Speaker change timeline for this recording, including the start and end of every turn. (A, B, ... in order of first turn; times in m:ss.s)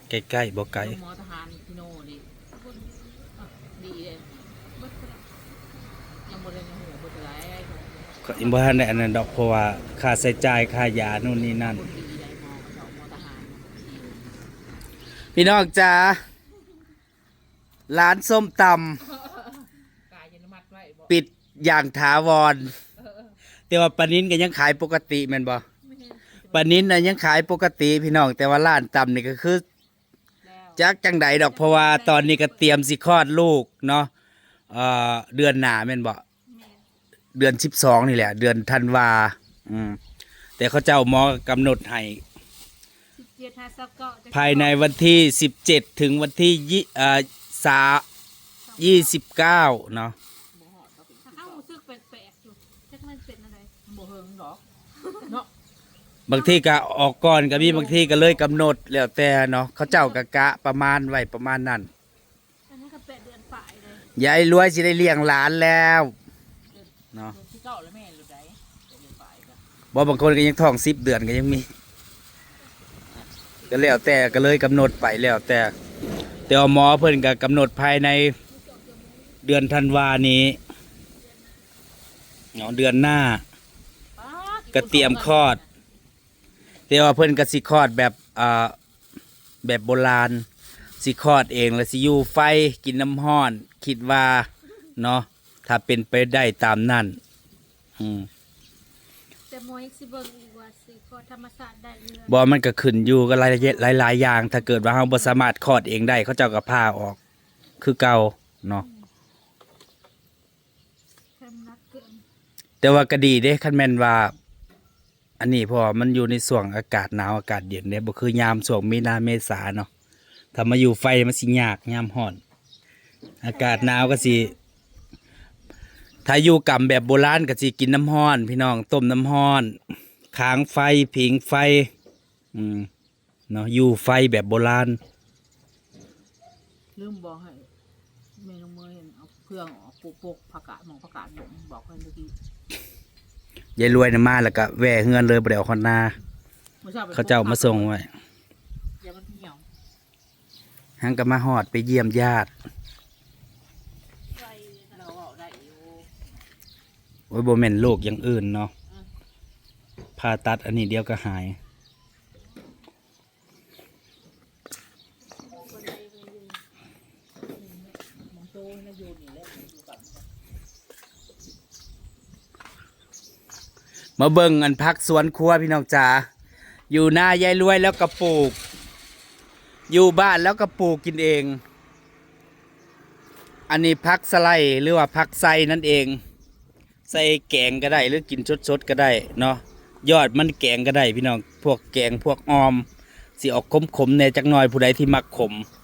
0:00.1-0:01.0 A
0:00.8-0:02.3 B
0:02.5-0:03.5 C
0:03.7-0:04.6 B
0:04.7-0:05.5 C
0:06.3-0:09.0 B
0:08.2-0:11.8 A
0:11.6-0:14.1 B
0:15.4-0:16.2 A
0:17.9-0:19.0 A
0:19.1-0:21.1 B
0:21.1-0:22.7 A
0:23.0-0:23.4 B
0:23.7-0:25.6 A
0:25.9-0:27.2 B
0:26.5-0:29.6 A
0:30.4-0:30.8 B
0:30.8-0:34.1 A
0:31.4-0:32.8 C
0:34.7-0:36.2 A
0:36.5-0:36.8 C
0:37.4-0:40.0 A
0:40.6-0:42.2 A
0:43.1-0:45.3 C
0:44.3-0:48.0 A
0:48.7-0:49.2 C
0:48.8-0:50.2 A
0:50.5-0:51.7 B
0:51.3-0:53.7 C
0:53.9-0:54.6 B
0:55.2-0:55.5 B
0:56.3-1:01.9 A
0:56.4-0:56.6 C
0:57.6-0:58.4 B
0:59.9-1:00.2 C
1:02.7-1:04.1 C
1:04.2-1:06.1 A
1:06.7-1:09.6 B
1:09.9-1:11.7 A
1:13.7-1:15.7 A
1:16.5-1:18.4 A
1:18.5-1:19.4 C
1:19.4-1:20.6 A
1:21.2-1:21.6 C
1:22.6-1:23.4 A
1:24.2-1:25.7 B
1:24.7-1:25.6 A
1:26.9-1:28.8 A
1:29.6-1:30.4 A
1:31.0-1:37.2 A
1:38.0-1:38.3 A
1:39.5-1:42.4 C
1:42.3-1:47.2 A
1:43.5-1:45.3 C
1:47.8-1:48.8 A
1:51.4-1:52.2 C
1:52.8-1:54.3 A
1:55.4-1:59.9 A
2:00.5-2:02.4 A
2:03.4-2:04.5 A
2:03.4-2:04.5 C
2:06.3-2:09.8 A
2:10.3-2:11.9 A
2:12.5-2:12.9 A
2:13.5-2:15.0 A
2:17.0-2:17.7 B
2:18.4-2:22.3 B
2:23.8-2:26.2 A
2:26.8-2:27.9 B
2:27.2-2:28.1 A
2:29.0-2:29.6 B
2:31.0-2:32.5 A
2:34.4-2:36.1 B
2:37.3-2:38.7 A
2:40.2-2:41.6 A
2:45.5-2:46.6 C
2:47.5-2:50.3 B
2:54.2-2:56.3 A
2:56.9-2:58.6 A
2:59.9-3:01.6 A
3:03.7-3:06.2 A
3:07.1-3:12.9 A
3:13.4-3:15.6 A